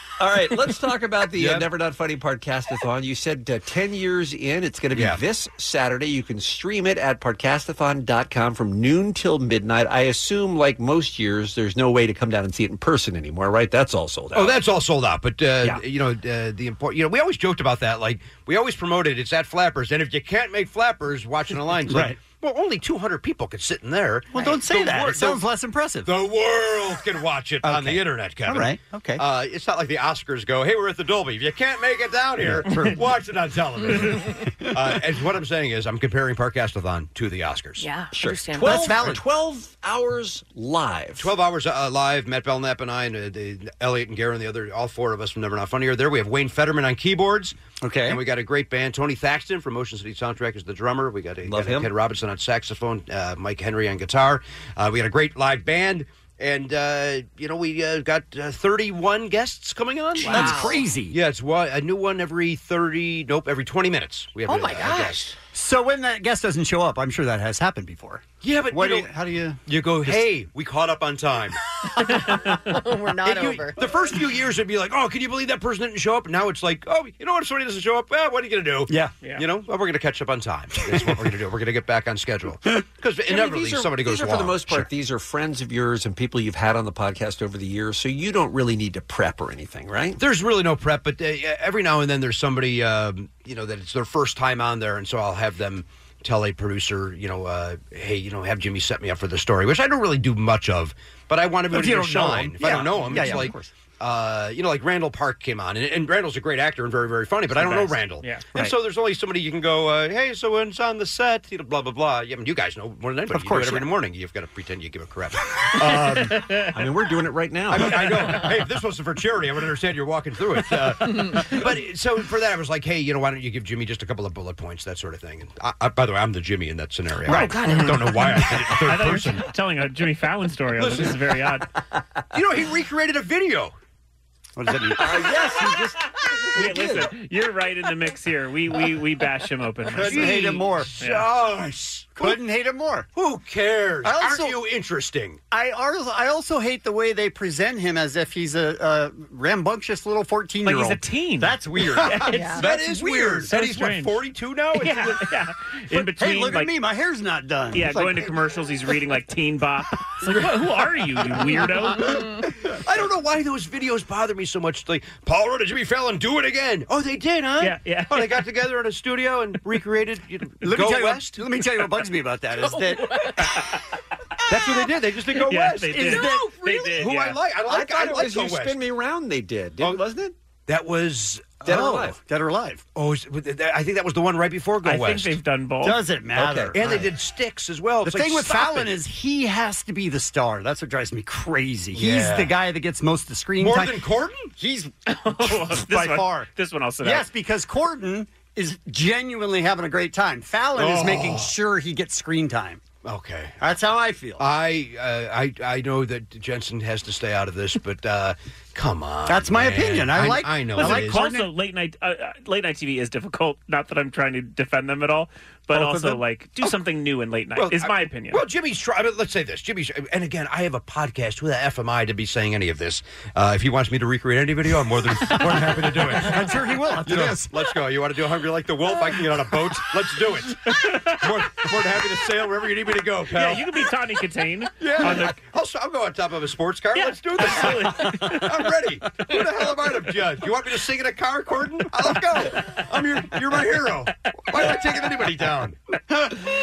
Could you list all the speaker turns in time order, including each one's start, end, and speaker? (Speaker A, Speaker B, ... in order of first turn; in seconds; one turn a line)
Speaker A: 0.2-14.6
Speaker B: 1.3-1.7
Speaker B: 4.9-5.2
Speaker B: 14.3-25.4
Speaker C: 21.9-22.2
Speaker C: 24.3-26.1
Speaker B: 26.1-37.9
Speaker C: 27.6-29.2
Speaker C: 32.4-33.0
Speaker D: 37.8-39.0
Speaker A: 38.1-41.3
Speaker C: 38.6-39.2
Speaker B: 41.2-65.3
Speaker C: 47.8-48.2
Speaker A: 51.5-51.9
Speaker D: 60.2-60.8
Speaker C: 60.3-61.2
Speaker D: 64.5-65.3
Speaker C: 65.5-70.3
Speaker B: 68.4-69.1
Speaker B: 69.7-71.6
Speaker D: 72.0-73.8
Speaker B: 73.2-84.9
Speaker C: 78.9-79.2
Speaker A: 83.3-90.2
Speaker B: 90.2-116.4
Speaker C: 101.7-103.7
Speaker E: 107.5-108.5
Speaker C: 113.3-113.9
Speaker E: 116.3-116.7
Speaker A: 116.7-118.5
Speaker B: 117.7-129.5
Speaker C: 127.3-127.7
Speaker E: 127.3-131.7
Speaker B: 130.8-131.2
Speaker B: 132.3-133.7
Speaker C: 134.6-135.9
Speaker A: 135.0-136.0
Speaker E: 136.5-141.3
Speaker A: 136.6-136.9
Speaker C: 136.6-137.0
Speaker C: 140.0-141.0
Speaker B: 140.0-142.4
Speaker C: 142.2-143.1
Speaker B: 143.1-145.4
Speaker C: 144.0-144.6
Speaker C: 145.5-153.5
Speaker E: 150.7-152.6
Speaker D: 152.3-152.7
Speaker B: 152.6-155.2
Speaker E: 153.4-156.7
Speaker C: 155.9-158.3
Speaker E: 157.7-162.3
Speaker B: 160.2-160.7
Speaker B: 162.7-171.4
Speaker E: 167.6-168.4
Speaker C: 170.6-173.7
Speaker E: 173.0-173.8
Speaker B: 174.5-178.8
Speaker E: 175.3-177.4
Speaker C: 175.9-176.6
Speaker A: 177.7-180.3
Speaker B: 180.7-181.7
Speaker A: 181.6-182.2
Speaker C: 181.6-182.8
Speaker B: 182.9-185.4
Speaker E: 184.8-186.0
Speaker C: 185.8-187.1
Speaker A: 186.3-186.8
Speaker B: 186.7-189.0
Speaker C: 188.0-194.1
Speaker B: 191.9-192.5
Speaker B: 193.6-194.5
Speaker C: 194.6-196.5
Speaker E: 195.2-197.3
Speaker C: 197.0-202.8
Speaker B: 200.8-201.6
Speaker B: 203.0-203.6
Speaker C: 203.6-204.4
Speaker B: 204.4-211.3
Speaker C: 209.3-211.5
Speaker E: 210.8-218.4
Speaker C: 215.7-216.2
Speaker B: 217.6-226.5
Speaker C: 225.4-227.5
Speaker B: 227.1-233.7
Speaker E: 233.3-235.4
Speaker B: 234.8-245.8
Speaker E: 236.9-238.6